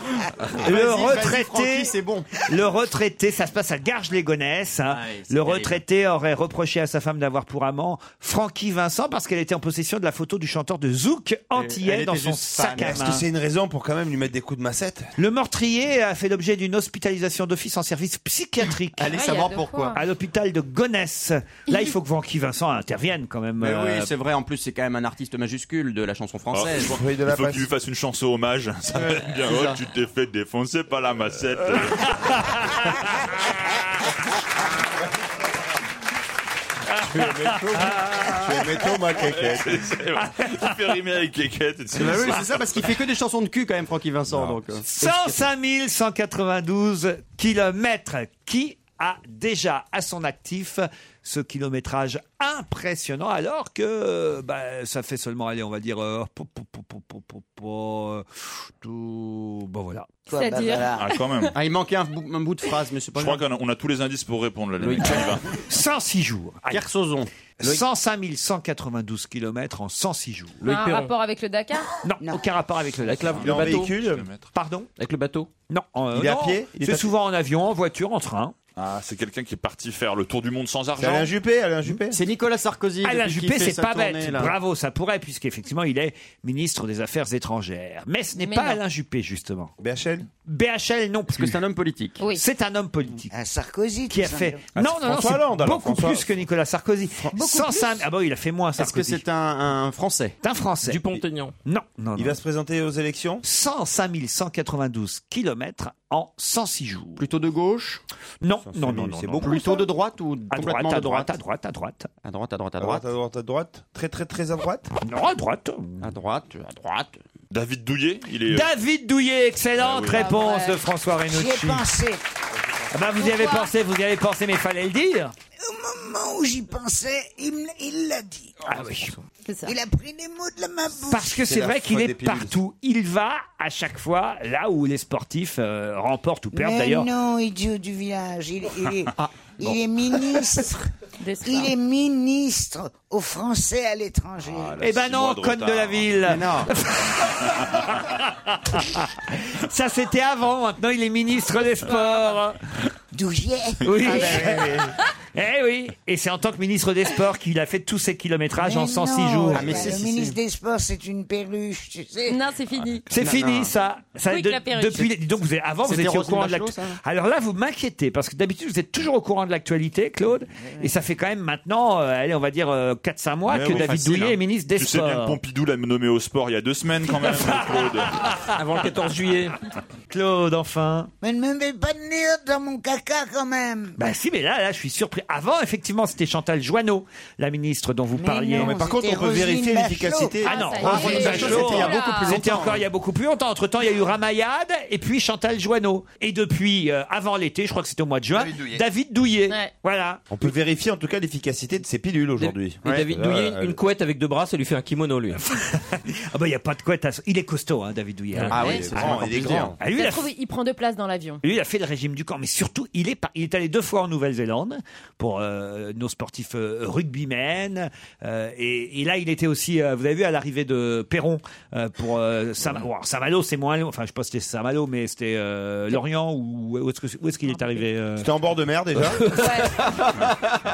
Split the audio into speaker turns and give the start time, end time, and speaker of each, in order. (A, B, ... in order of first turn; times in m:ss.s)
0:00.5-0:02.3 A
0:00.6-0:01.9 B
0:02.4-0:13.2 B
0:04.9-0:05.8 A
0:11.5-0:13.1 A
0:12.8-0:15.1 C
0:15.2-0:19.2 B
0:19.0-0:19.9 A
0:19.1-0:20.0 D
0:19.9-0:24.1 B
0:23.6-0:27.0 A
0:26.5-0:32.2 E
0:26.9-0:27.7 C
0:29.0-0:29.8 A
0:32.2-0:32.9 B
0:37.0-0:39.8 C
0:37.2-0:38.7 B
0:39.2-0:42.8 E
0:40.2-0:40.7 B
0:41.9-0:45.4 A
0:44.3-0:44.6 C
0:44.8-0:58.2 B
0:58.8-1:00.2 B
1:00.3-1:01.1 F
1:00.3-1:01.5 D
1:00.9-1:01.5 E
1:01.5-1:03.4 A
1:03.1-1:05.4 E
1:04.8-1:05.4 A
1:05.7-1:06.9 B
1:06.7-1:07.8 A
1:07.6-1:10.6 B
1:10.6-1:11.1 G
1:10.6-1:11.9 D
1:12.0-1:13.7 B
1:13.0-1:14.0 G
1:13.3-1:14.3 C
1:13.4-1:14.5 E
1:14.5-1:14.9 B
1:15.0-1:15.5 G
1:15.7-1:18.5 B
1:16.1-1:17.1 C
1:18.8-1:21.3 E
1:21.0-1:22.2 C
1:22.1-1:24.5 A
1:23.0-1:29.7 B
1:28.4-1:28.8 D
1:29.8-1:30.3 C
1:30.4-1:31.6 B
1:31.3-1:32.2 A
1:32.2-1:33.3 B
1:33.3-1:34.6 F
1:34.1-1:39.2 B
1:34.8-1:36.3 C
1:37.4-1:38.0 D
1:38.8-1:40.3 A
1:40.4-1:42.4 B
1:40.8-1:41.5 G
1:42.2-1:43.4 C
1:43.4-1:47.2 B
1:47.2-1:48.0 A
1:48.4-1:49.7 B
1:48.6-1:49.7 C
1:49.4-1:51.3 A
1:50.5-1:52.1 B
1:52.2-1:53.0 A
1:52.8-1:54.9 C
1:55.0-1:56.1 B
1:56.0-1:57.2 A
1:57.5-1:58.7 E
1:58.5-2:01.8 B
1:59.8-2:00.3 E
2:00.1-2:00.8 D
2:01.3-2:02.2 F
2:02.9-2:05.3 B
2:03.2-2:03.7 D
2:05.6-2:08.6 F
2:08.6-2:09.2 B
2:09.4-2:09.8 D
2:09.6-2:11.4 F
2:11.0-2:17.1 B
2:11.4-2:12.6 C
2:16.5-2:20.9 F
2:19.2-2:19.7 A
2:21.2-2:21.7 D
2:21.4-2:24.8 F
2:24.4-2:26.3 E
2:24.8-2:32.6 B
2:26.2-2:26.7 A
2:27.4-2:28.0 E
2:31.8-2:32.4 D
2:33.1-2:34.7 F
2:33.8-2:40.0 B
2:38.6-2:42.4 F
2:39.5-2:40.4 A
2:42.2-2:43.1 D
2:43.1-2:55.4 B
2:43.1-2:43.7 A
2:44.3-2:45.1 D
2:45.8-2:47.0 A
2:50.6-2:50.9 F
2:53.5-2:54.4 A
2:54.7-2:58.4 E
2:57.3-2:58.5 B
2:58.5-2:59.6 G
3:00.1-3:01.1 B
3:01.2-3:04.0 F
3:04.0-3:08.8 B
3:08.1-3:10.5 F
3:08.5-3:11.8 C
3:10.4-3:12.4 D
3:10.4-3:20.2 B
3:10.7-3:12.8 A
3:20.3-3:23.8 C
3:22.4-3:25.4 G
3:25.3-3:30.3 B
3:28.4-3:29.8 A
3:28.4-3:29.8 C
3:29.8-3:31.4 D
3:31.4-3:48.3 B
3:48.2-3:49.3 C
3:49.3-3:49.9 D
3:50.1-3:50.4 A